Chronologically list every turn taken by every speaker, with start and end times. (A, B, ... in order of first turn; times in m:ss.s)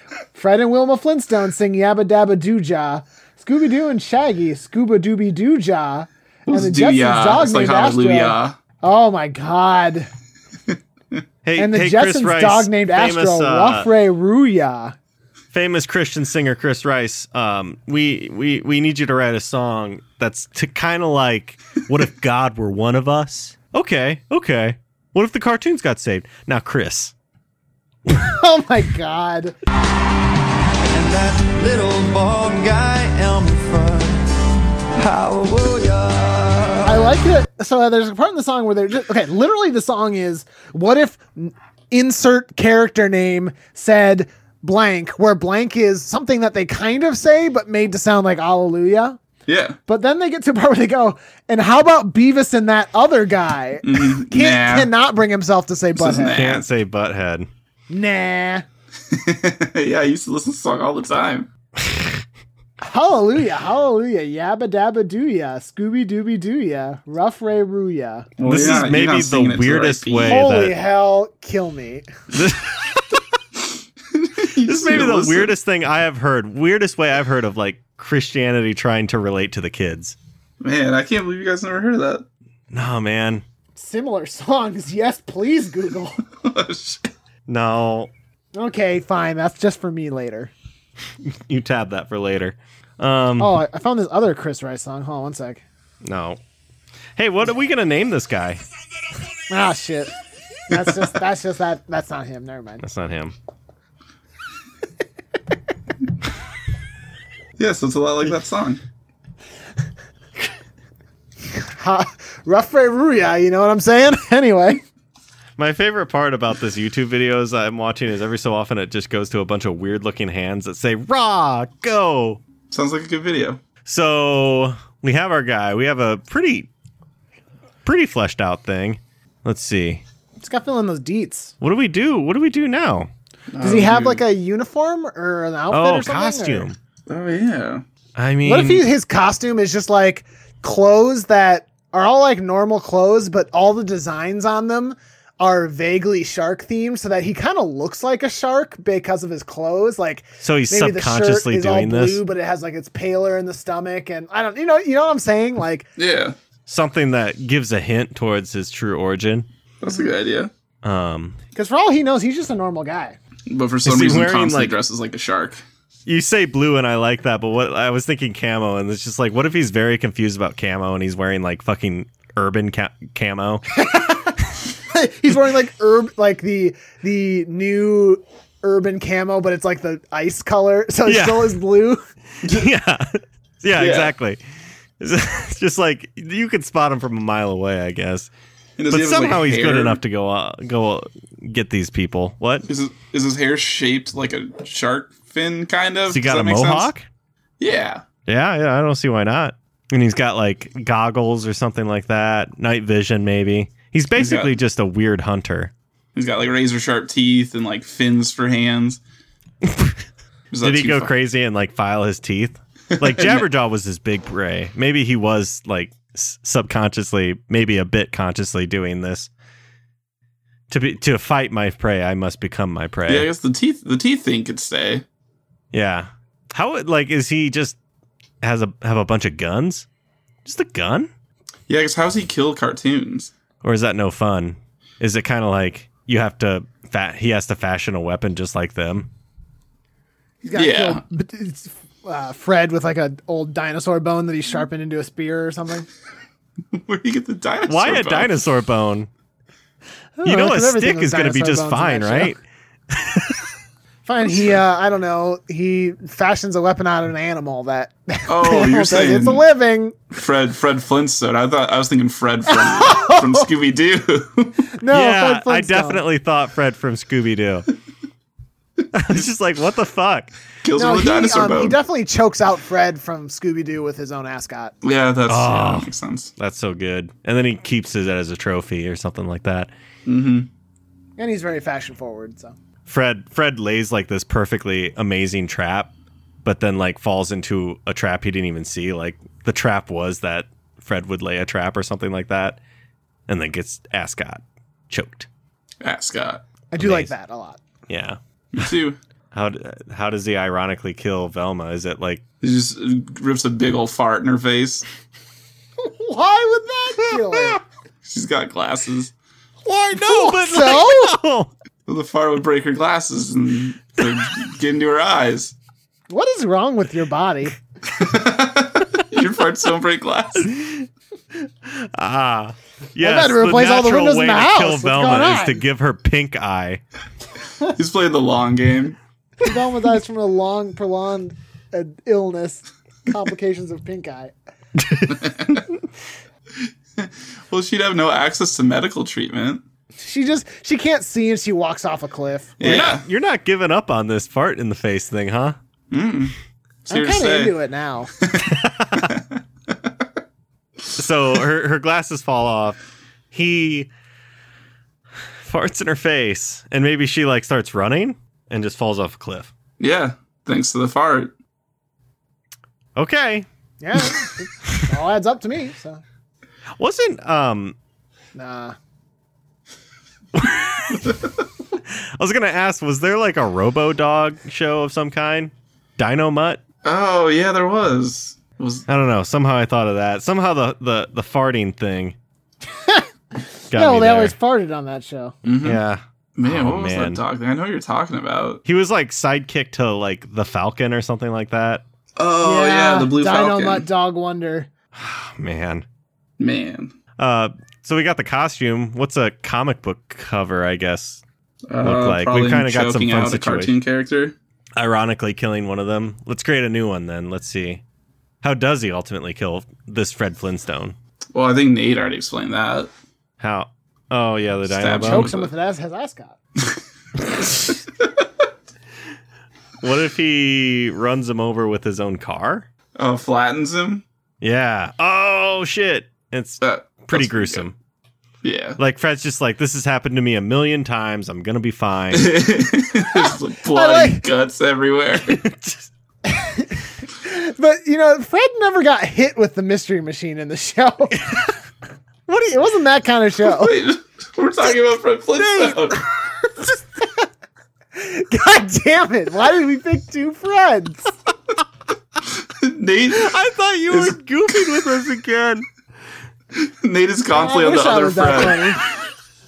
0:00.3-0:10.1 A
0:06.5-0:08.6 B
0:11.4-0:13.9 C
0:11.6-0:15.0 A
0:15.5-0:27.1 C
0:28.1-0:29.6 A
0:30.9-0:34.4 D
0:35.0-0:37.2 D
0:36.8-0:49.2 A
0:49.5-0:49.8 B
0:49.9-0:56.4 A
0:53.8-0:54.9 B
0:56.0-0:56.7 B
0:56.2-0:57.5 C
0:57.9-0:58.6 A
0:59.1-1:01.5 B
1:02.8-1:08.3 A
1:08.4-1:10.4 B
1:08.4-1:10.8 C
1:10.3-1:12.1 A
1:12.3-1:13.2 C
1:14.1-1:15.5 B
1:14.6-1:20.2 C
1:20.6-1:22.2 B
1:22.7-1:23.4 C
1:23.8-1:26.2 A
1:26.4-1:27.1 B
1:27.5-1:28.1 C
1:28.6-1:30.5 A
1:31.2-1:33.6 C
1:33.4-1:35.6 A
1:36.0-1:36.4 C
1:37.2-1:38.6 C
1:39.5-1:40.1 A
1:40.7-1:42.8 A
1:42.8-1:43.4 C
1:47.6-1:48.8 B
1:51.6-1:54.8 A
1:55.6-2:02.4 C
2:02.7-2:03.6 B
2:03.8-2:06.7 C
2:07.8-2:10.0 C
2:10.4-2:11.5 A
2:11.6-2:13.1 C
2:13.5-2:14.2 B
2:13.6-2:16.7 A
2:15.7-2:16.8 C
2:17.1-2:17.8 B
2:18.2-2:18.9 C
2:18.4-2:35.9 A
2:30.4-2:32.2 C
2:36.0-2:36.4 B
2:36.7-2:39.5 C
2:39.8-2:40.5 B
2:40.8-2:41.4 C
2:41.6-2:43.2 A
2:43.5-2:45.6 B
2:43.8-2:44.8 C
2:46.1-2:53.6 C
2:53.8-3:02.0 A
3:01.1-3:01.6 C
3:02.4-3:04.4 C
3:03.8-3:04.1 B
3:05.0-3:08.3 C
3:08.8-3:10.0 B
3:08.9-3:12.7 C
3:12.7-3:16.9 B
3:16.1-3:17.1 C
3:17.6-3:18.0 B
3:18.3-3:25.7 C
3:24.2-3:24.5 B
3:26.2-3:29.0 B
3:29.6-3:30.0 C
3:30.5-3:31.1 B
3:30.6-3:39.3 C
3:32.9-3:33.5 B
3:40.7-3:43.3 C
3:43.1-3:45.0 B
3:45.7-3:47.8 C
3:48.4-3:49.9 C
3:50.4-3:51.1 C
3:51.7-3:53.3 B
3:53.6-3:59.1 C
4:00.4-4:05.9 A
4:00.5-4:01.0 B
4:06.7-4:08.5 B
4:07.7-4:09.1 C
4:10.2-4:12.4 A
4:10.2-4:12.4 C
4:12.9-4:13.5 C
4:14.0-4:20.0 A
4:18.3-4:19.4 B
4:20.1-4:24.7 B
4:22.5-4:23.5 A
4:24.8-4:26.0 A
4:24.9-4:27.7 C
4:28.9-4:30.3 C
4:30.6-4:31.8 B
4:30.8-4:34.8 A
4:34.8-4:36.3 B
4:35.3-4:39.7 C
4:40.1-4:40.5 B
4:41.2-4:42.6 A
4:42.9-4:45.9 C
4:46.4-4:52.6 C
4:53.3-4:55.3 C
4:55.8-4:56.4 B
4:56.7-4:57.6 A
4:56.8-4:57.1 C
4:57.9-4:58.7 C
4:58.5-4:59.0 B
4:59.3-5:02.2 C
5:02.4-5:04.9 B
5:05.8-5:07.6 A
5:07.2-5:07.6 C
5:08.0-5:09.1 B
5:09.7-5:11.2 A
5:09.8-5:11.5 C
5:11.9-5:15.5 B
5:16.1-5:17.6 A
5:17.9-5:20.5 B
5:20.4-5:20.8 C
5:21.6-5:26.8 C
5:23.0-5:25.6 A
5:27.6-5:29.0 B
5:29.4-5:34.3 A
5:34.8-5:35.8 C
5:35.1-5:35.6 B
5:36.6-5:39.6 B
5:40.0-5:42.7 A
5:42.6-5:43.0 B
5:42.6-5:45.6 C
5:45.9-5:46.3 B
5:46.9-5:47.6 B
5:46.9-5:48.1 A
5:48.2-5:49.4 B
5:48.5-5:49.1 C
5:51.0-5:52.8 C
5:53.3-5:53.9 C
5:55.4-5:59.5 C
5:59.8-6:01.3 B
6:03.0-6:04.9 C
6:03.8-6:06.0 A
6:06.8-6:07.8 C
6:08.4-6:08.8 A
6:10.3-6:11.3 C
6:11.9-6:16.6 C
6:16.8-6:18.9 B
6:18.9-6:22.2 C
6:23.7-6:25.4 A
6:23.7-6:24.4 C
6:25.4-6:25.8 B
6:25.6-6:27.2 C
6:26.4-6:28.6 B
6:28.6-6:31.8 C
6:32.2-6:33.8 B
6:32.4-6:34.7 A
6:34.9-6:35.9 C
6:36.4-6:36.9 B
6:37.2-6:41.2 C
6:41.7-6:44.4 B
6:41.8-6:43.7 C
6:44.8-6:47.8 C
6:48.4-6:51.0 C
6:51.3-6:52.9 B
6:53.4-6:55.3 C
6:54.7-6:55.5 B
6:55.0-6:56.4 A
6:59.8-7:02.7 C
7:03.0-7:04.0 B
7:04.4-7:07.7 C
7:06.6-7:07.7 B
7:08.4-7:08.8 B
7:08.8-7:12.5 C
7:12.1-7:15.4 B
7:13.2-7:14.2 A
7:15.2-7:15.9 C
7:16.3-7:21.5 A
7:22.3-7:23.8 A
7:23.4-7:26.0 B
7:25.5-7:25.9 A
7:28.0-7:31.1 A
7:32.4-7:33.4 B
7:33.1-7:35.7 C
7:33.9-7:34.7 B
7:36.6-7:38.8 B
7:37.3-7:38.8 A